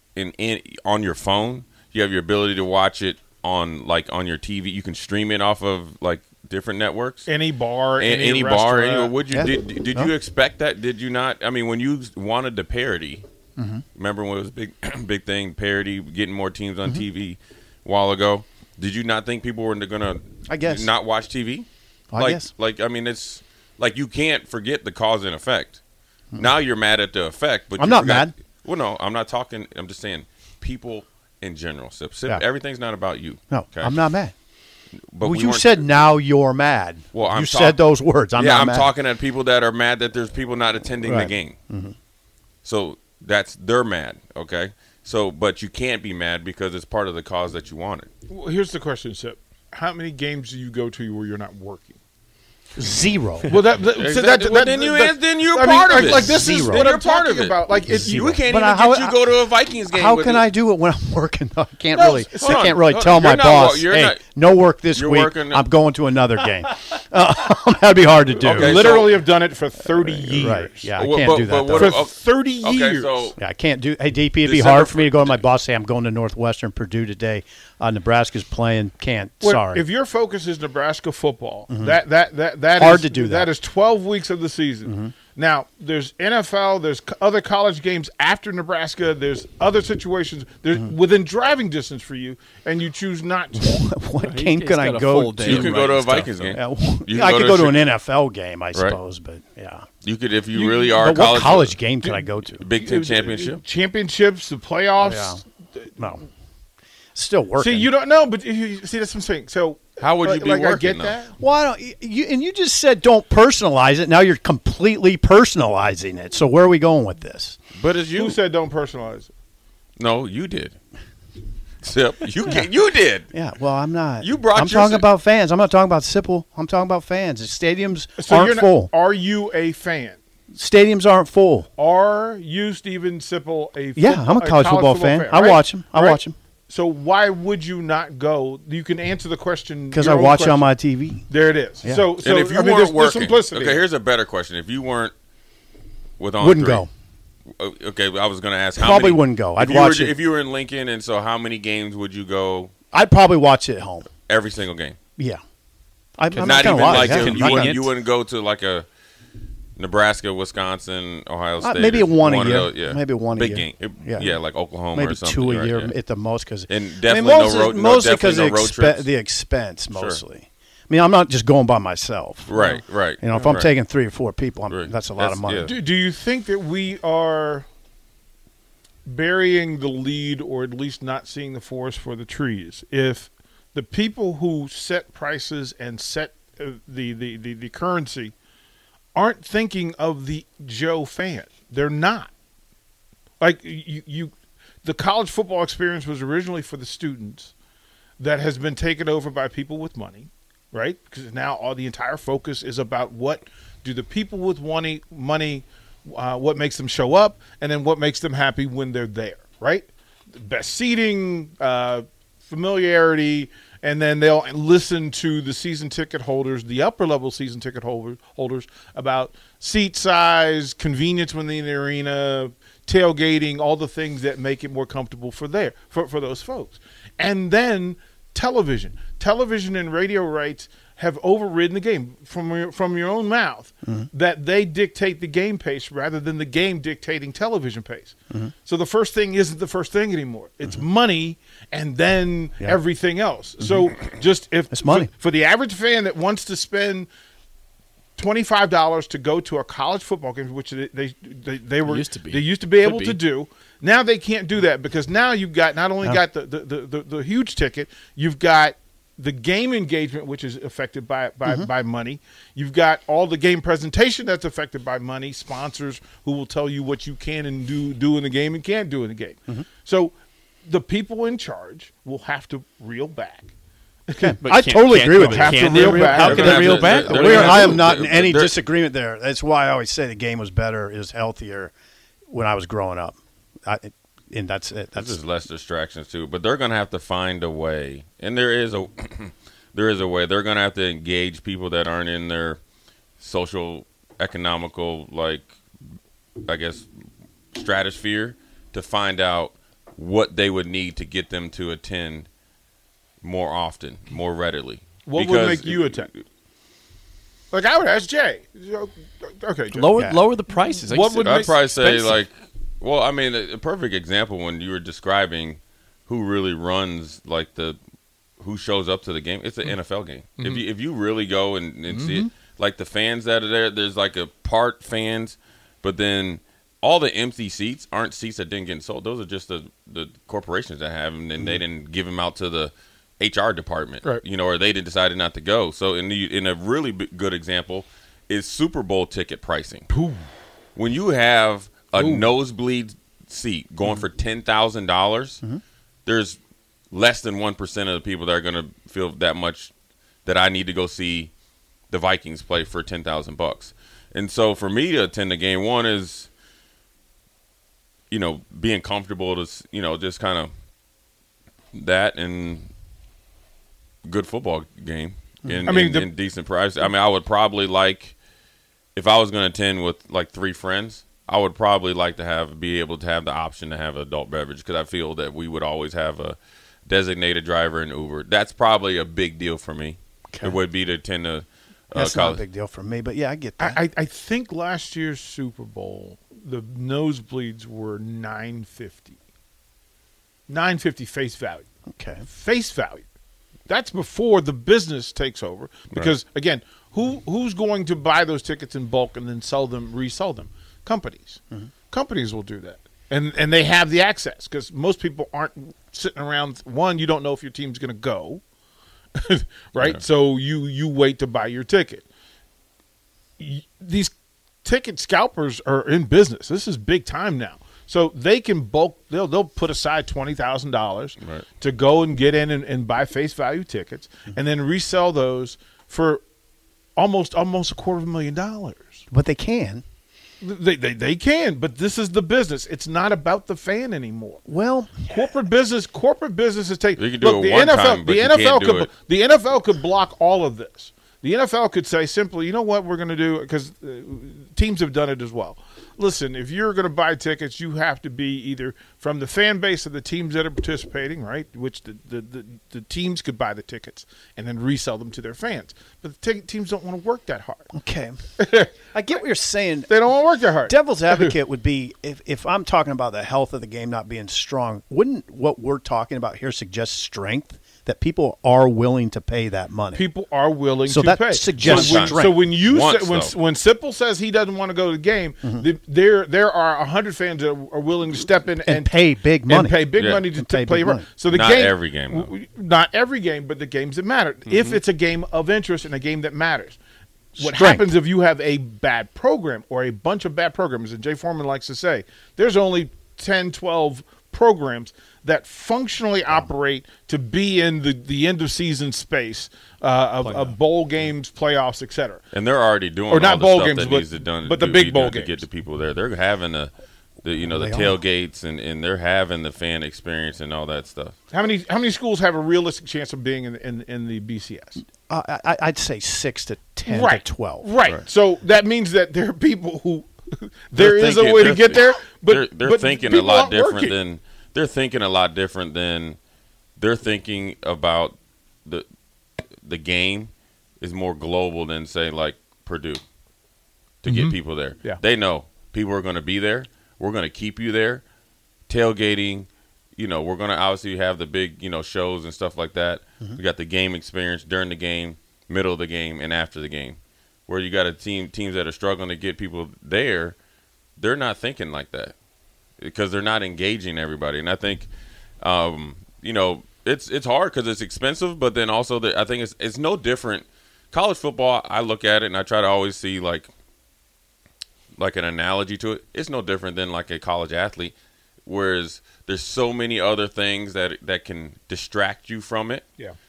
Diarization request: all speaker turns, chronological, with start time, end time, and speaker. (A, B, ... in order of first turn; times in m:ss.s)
0:00.2-0:07.3 A
0:07.2-0:09.2 B
0:08.0-0:13.2 A
0:09.3-0:10.1 C
0:13.6-0:13.8 C
0:13.9-0:25.8 A
0:20.5-0:20.9 C
0:22.1-0:22.5 C
0:26.4-0:34.0 A
0:27.8-0:28.3 C
0:33.5-0:34.3 C
0:35.1-0:35.8 A
0:35.2-0:38.9 C
0:37.1-0:37.8 A
0:38.3-0:41.6 A
0:41.0-0:41.9 C
0:42.6-0:48.1 A
0:48.3-0:52.0 B
0:52.8-0:53.5 C
0:53.4-0:58.3 B
0:53.9-1:00.5 A
0:55.9-0:56.9 C
0:57.8-1:09.0 C
1:01.9-1:02.8 B
1:02.3-1:04.2 A
1:04.9-1:05.6 A
1:08.4-1:09.2 A
1:08.4-1:11.0 B
1:10.0-1:10.4 A
1:10.4-1:12.0 C
1:10.9-1:13.3 A
1:11.7-1:13.4 B
1:13.4-1:19.8 C
1:14.4-1:15.4 A
1:19.4-1:33.8 B
1:21.7-1:22.0 C
1:22.8-1:23.5 C
1:24.8-1:25.1 C
1:33.6-1:39.8 C
1:34.2-1:36.5 D
1:35.4-1:37.8 A
1:38.7-1:39.0 A
1:40.0-1:41.8 A
1:40.5-1:41.0 B
1:41.0-1:42.6 C
1:42.0-1:45.4 B
1:42.6-1:43.6 A
1:45.0-1:45.4 C
1:46.0-1:46.2 C
1:47.1-1:47.9 C
1:47.6-1:51.4 B
1:50.0-1:51.2 A
1:51.4-1:57.6 C
1:57.7-1:58.4 A
1:58.1-1:59.3 B
2:00.0-2:00.8 A
2:01.8-2:03.3 A
2:03.3-2:08.9 C
2:04.2-2:05.0 A
2:08.2-2:10.2 B
2:10.6-2:11.7 C
2:11.8-2:20.7 B
2:14.0-2:16.3 C
2:19.9-2:21.2 C
2:21.3-2:23.9 B
2:21.8-2:22.1 C
2:22.2-2:25.1 A
2:26.2-2:26.8 A
2:26.4-2:26.9 C
2:27.6-2:32.7 A
2:28.8-2:30.1 C
2:32.9-2:34.1 C
2:34.2-2:35.0 A
2:36.2-2:37.9 C
2:36.3-2:37.9 D
2:36.4-2:38.9 A
2:39.8-2:45.9 A
2:41.6-2:44.4 C
2:44.9-2:52.6 C
2:46.7-2:49.1 A
2:49.9-2:50.2 A
2:52.5-2:53.7 A
2:52.5-2:53.6 B
2:53.2-2:55.7 C
2:54.7-2:55.7 A
2:55.6-2:57.6 B
2:59.1-3:08.3 B
3:09.2-3:12.3 B
3:13.4-3:14.3 B
3:14.8-3:17.5 B
3:18.2-3:58.1 B
3:58.6-4:07.1 B
4:03.6-4:03.9 C
4:04.7-4:05.1 C
4:08.2-4:30.1 B
4:11.8-4:13.2 D
4:30.6-4:33.5 B
4:34.1-4:34.4 B
4:34.2-4:41.7 C
4:34.4-4:37.8 D
4:35.2-4:37.1 B
4:36.2-4:38.5 A
4:42.3-4:45.2 C
4:44.9-4:52.6 A
4:53.2-4:55.5 A
4:56.4-4:56.9 A
4:57.5-5:02.3 A
5:03.2-5:06.2 A
5:05.0-5:06.1 B
5:07.5-5:10.2 B
5:09.8-5:12.1 D
5:09.8-5:10.2 C
5:10.8-5:11.6 B
5:11.2-5:17.8 A
5:18.4-5:39.9 A
5:21.9-5:22.3 B
5:39.9-5:40.2 B
5:40.8-5:45.4 A
5:41.9-5:42.3 B
5:46.0-5:46.4 A
5:46.9-5:49.7 A
5:50.2-5:51.3 A
5:51.9-5:56.3 A
5:58.1-6:00.5 A
6:01.7-6:02.7 A
6:04.1-6:08.2 A
6:05.6-6:06.1 B
6:08.9-6:22.4 A
6:20.3-6:20.6 C
6:21.9-6:23.8 C
6:23.6-6:29.2 B
6:30.5-6:31.6 B
6:31.9-6:32.2 C
6:32.3-6:33.0 B
6:33.7-6:41.4 B
6:41.9-6:48.4 B
6:49.2-6:52.0 B
6:53.4-6:54.1 B
6:54.6-7:06.2 B
7:01.2-7:01.5 A
7:07.0-7:09.0 B
7:09.1-7:09.8 C
7:10.4-7:14.4 B
7:14.4-7:15.3 C
7:15.1-7:37.7 B
7:17.0-7:18.9 A
7:37.7-7:38.1 C
7:38.4-7:38.7 B
7:38.9-7:39.9 C
7:39.9-7:41.3 B
7:40.6-7:50.0 C
7:49.9-8:06.8 B
7:50.8-7:52.4 C
7:51.5-7:53.3 A
7:58.4-8:01.1 C
7:59.9-8:00.2 A
8:01.2-8:02.3 A
8:04.5-8:04.8 A
8:07.4-8:07.9 C
8:07.4-8:22.2 B
8:22.3-8:26.7 A
8:23.1-8:25.4 B
8:27.2-8:31.1 A
8:27.5-8:28.0 C
8:31.3-8:34.8 B
8:35.0-8:37.7 C
8:36.9-8:44.0 B
8:40.8-8:46.2 A
8:46.8-8:48.8 A
8:49.6-8:53.0 A
8:54.0-8:58.0 A
8:54.0-8:55.0 B
8:58.7-9:10.4 A
9:11.0-9:12.1 A
9:12.8-9:14.9 A
9:15.4-9:23.5 A
9:25.0-9:32.8 A